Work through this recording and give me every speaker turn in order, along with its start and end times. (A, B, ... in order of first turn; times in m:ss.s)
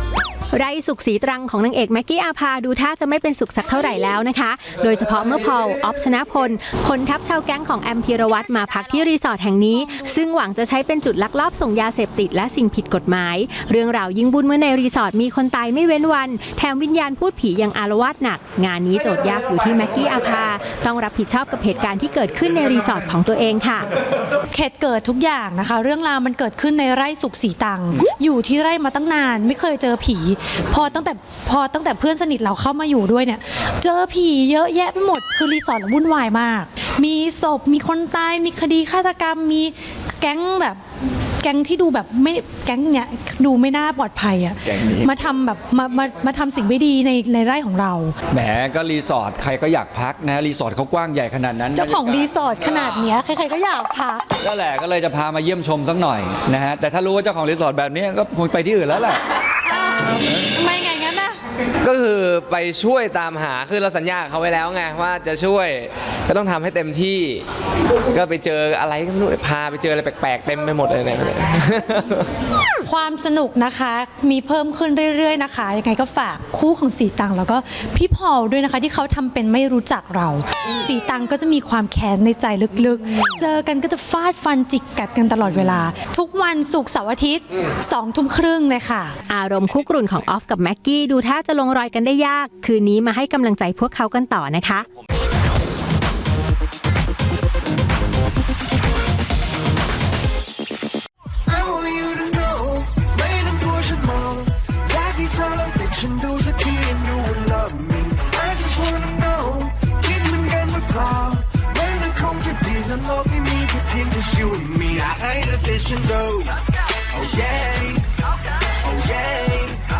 0:00.5-0:23.9 A
0:24.5-0:40.8 B
0:41.4-0:48.1 B
0:44.6-0:45.1 C
0:48.3-0:52.3 C
0:51.7-0:54.2 B
0:54.4-0:59.2 C
1:00.5-1:01.4 B
1:01.8-1:07.4 D
1:08.1-1:12.3 D
1:12.8-1:29.1 B
1:29.3-1:34.8 A
1:41.5-1:56.6 E
1:57.1-1:58.0 E
1:58.8-1:59.8 E